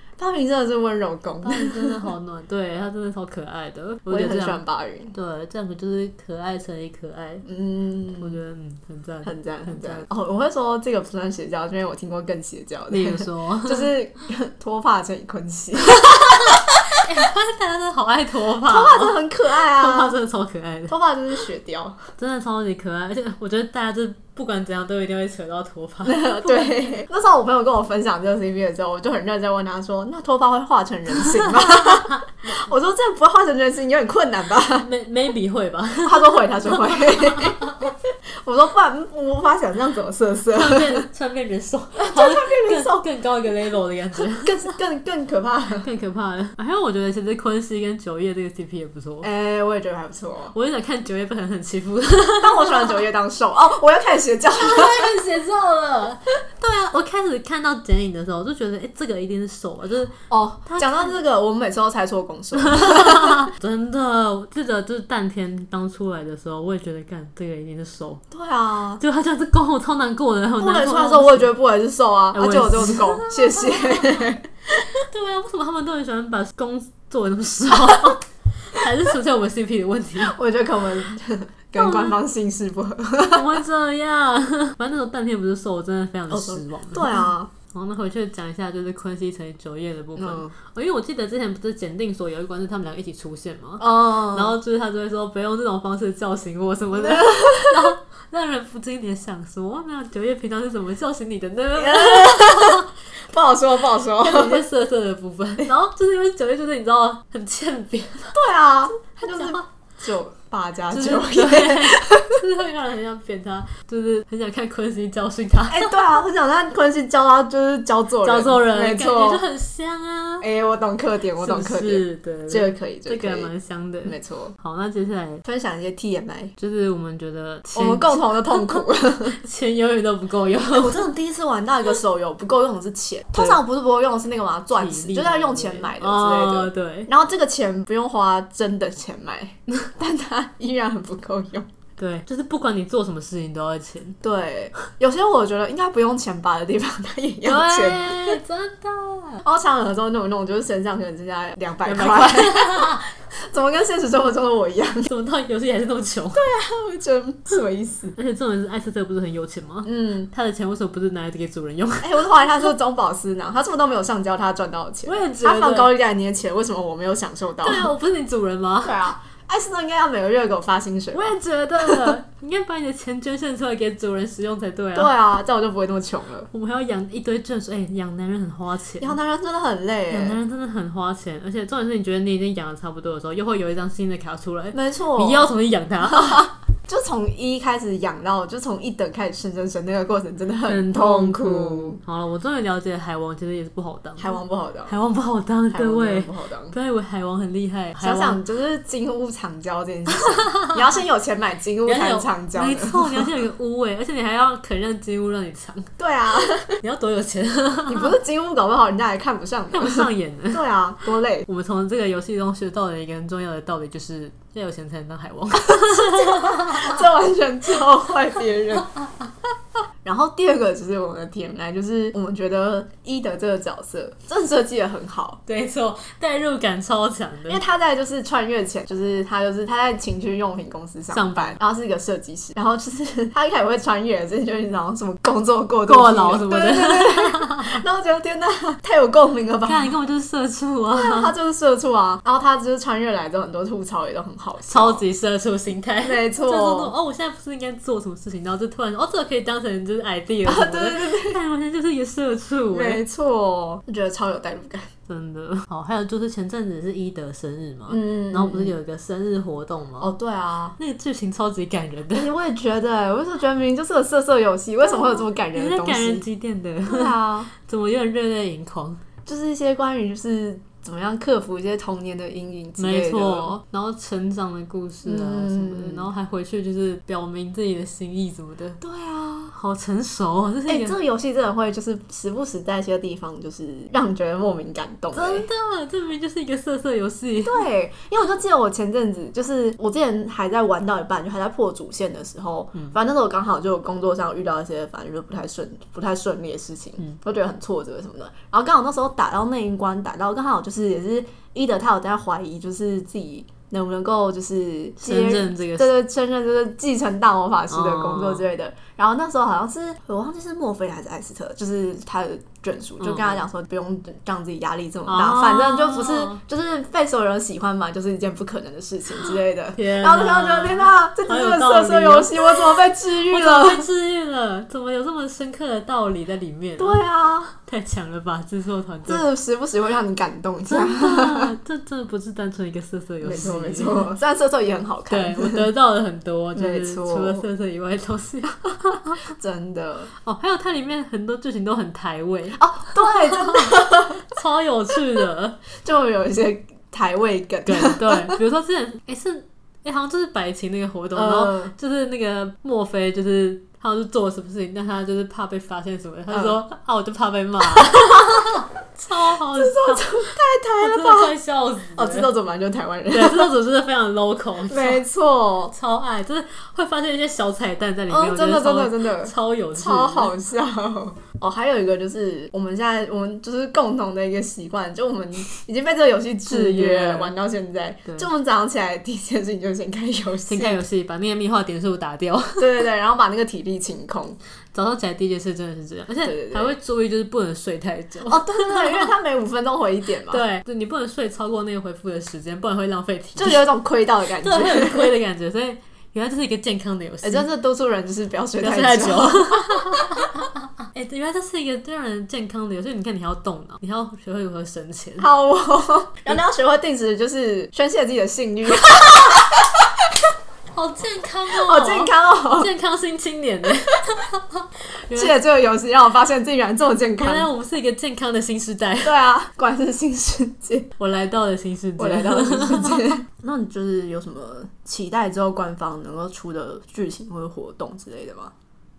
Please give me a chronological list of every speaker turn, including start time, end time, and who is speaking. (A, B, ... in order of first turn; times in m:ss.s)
0:00.2-0:02.1 A
0:01.4-0:04.6 B
0:04.1-0:05.1 A
0:05.1-0:07.4 B
0:07.4-0:08.4 A
0:08.2-0:10.0 B
0:09.2-0:16.9 A
0:12.9-0:13.9 B
0:15.9-0:20.9 B
0:18.6-0:20.1 A
0:20.9-0:22.0 A
0:22.2-0:26.9 B
0:26.0-0:34.9 A
0:31.2-0:32.2 B
0:34.8-0:37.9 B
0:36.0-0:41.1 A
0:40.5-0:44.6 B
0:42.0-0:43.0 A
0:44.4-0:45.9 A
0:45.8-0:49.3 B
0:49.2-0:50.5 A
0:50.5-0:53.0 B
0:52.4-0:55.1 A
0:54.6-1:00.1 B
1:00.3-1:03.5 A
1:00.6-1:01.2 B
1:02.6-1:08.2 B
1:08.3-1:09.0 A
1:09.0-1:11.5 B
1:10.6-1:14.5 A
1:12.3-1:14.3 B
1:14.9-1:20.4 B
1:20.2-1:23.5 A
1:21.8-1:22.2 B
1:23.3-1:42.9 B
1:26.3-1:27.5 A
1:30.2-1:30.5 A
1:33.8-1:34.6 A
1:37.0-1:37.7 A
1:41.8-1:44.6 A
1:44.2-1:48.4 B
1:48.3-1:52.4 A
1:49.2-1:49.6 B
1:50.9-1:55.9 B
1:55.7-1:59.4 A
1:58.2-2:00.4 B
2:00.4-2:03.5 A
2:01.4-2:05.4 B
2:04.0-2:04.5 A
2:05.4-2:06.5 A
2:06.6-2:11.1 B
2:07.7-2:09.4 A
2:10.7-2:21.7 A
2:13.3-2:13.6 B
2:14.7-2:17.1 B
2:22.0-2:24.2 B
2:24.2-2:28.4 A
2:27.4-2:29.4 B
2:29.4-2:35.1 A
2:31.8-2:33.0 B
2:35.0-2:36.4 B
2:36.3-2:38.1 A
2:38.2-2:42.7 B
2:39.8-2:40.3 A
2:42.0-2:47.9 A
2:45.0-2:45.9 B
2:47.6-2:49.0 B
2:48.8-2:52.2 A
2:51.1-2:55.1 B
2:54.9-2:56.5 A
2:56.5-2:59.2 B
2:59.0-3:00.4 A
3:00.1-3:06.5 B
3:04.7-3:05.5 A
3:06.1-3:12.0 A
3:10.7-3:18.4 B
3:14.2-3:14.9 A
3:15.7-3:16.7 A
3:18.0-3:23.3 A
3:20.2-3:20.8 B
3:21.8-3:25.9 B
3:26.0-3:26.8 A
3:26.7-3:28.1 B
3:27.9-3:31.4 A
3:29.7-3:30.6 B
3:31.4-3:37.0 B
3:35.7-3:38.9 A
3:40.0-3:45.4 A
3:45.5-3:47.6 B
3:47.5-3:59.9 A
3:51.1-3:51.6 B
3:55.9-3:57.8 B
3:59.6-4:01.3 B
4:00.9-4:05.0 A
4:04.7-4:13.0 B
4:06.0-4:06.9 A
4:10.4-4:11.4 A
4:12.7-4:14.9 A
4:15.1-4:20.1 B
4:17.9-4:18.7 A
4:20.0-4:20.8 A
4:20.8-4:22.3 B
4:22.1-4:26.2 A
4:24.8-4:29.0 B
4:26.8-4:27.5 A
4:29.2-4:33.6 A
4:32.8-4:38.8 B
4:35.0-4:36.1 A
4:38.8-4:39.6 A
4:39.5-4:41.0 B
4:40.7-4:45.5 A
4:45.1-4:47.6 B
4:47.4-5:23.8 A
5:05.0-5:05.9 B
5:07.7-5:08.5 B
5:13.0-5:13.4 B
5:15.1-5:16.4 B
5:19.8-5:27.0 B
5:26.8-5:27.5 A
5:27.5-5:29.2 B
5:29.0-5:31.5 A
5:30.7-5:34.1 B
5:33.2-5:35.7 A
5:35.1-5:39.2 B
5:36.5-5:37.4 A
5:39.3-5:40.1 A
5:40.2-5:45.6 B
5:42.6-5:44.2 A
5:45.8-5:48.4 A
5:47.6-6:00.2 B
5:51.1-5:51.7 A
5:56.3-5:56.6 A
5:57.8-5:58.6 A
5:59.2-6:01.3 A
6:00.8-6:02.3 B
6:02.0-6:03.5 A
6:03.1-6:05.0 B
6:04.7-6:05.7 A
6:05.7-6:10.3 B
6:08.1-6:20.8 A
6:16.4-6:17.3 B
6:20.5-6:22.7 B
6:22.6-6:24.4 A
6:24.7-6:29.1 B
6:26.2-6:26.7 A
6:28.2-6:30.4 A
6:30.3-6:33.6 B
6:33.4-6:35.1 A
6:34.4-6:37.5 B
6:37.2-6:39.9 A
6:38.6-6:45.3 B
6:45.2-6:49.7 A
6:48.9-6:49.4 B
6:50.7-6:55.4 B
6:51.5-6:52.7 A
6:55.1-6:57.5 A
6:57.2-6:59.1 B
6:59.0-7:00.9 A
7:01.0-7:03.2 B
7:02.0-7:08.5 A